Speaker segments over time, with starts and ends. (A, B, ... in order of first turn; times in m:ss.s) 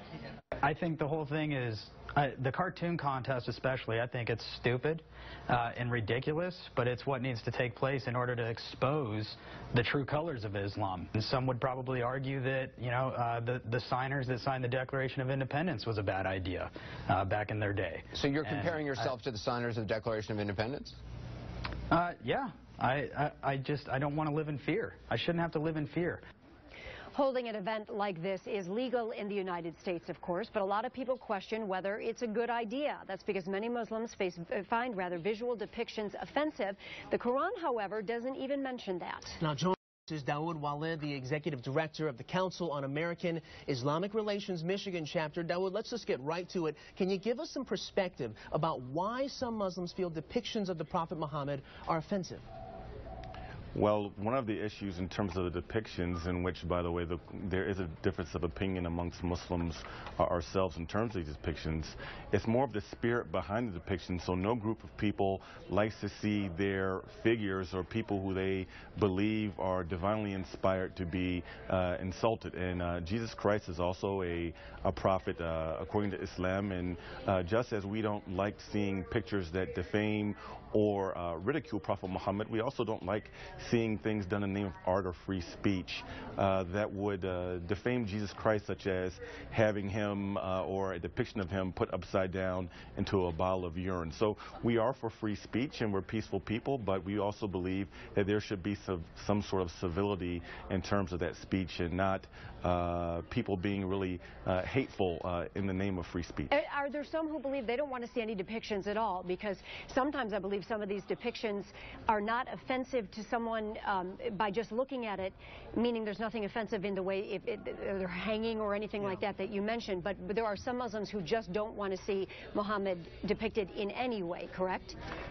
0:00.6-0:19.1 A
0:18.1-0:21.0 B
0:21.9-0:26.2 A
0:27.1-0:39.4 C
0:39.4-0:52.4 D
0:53.7-1:46.6 E
1:46.5-2:05.0 C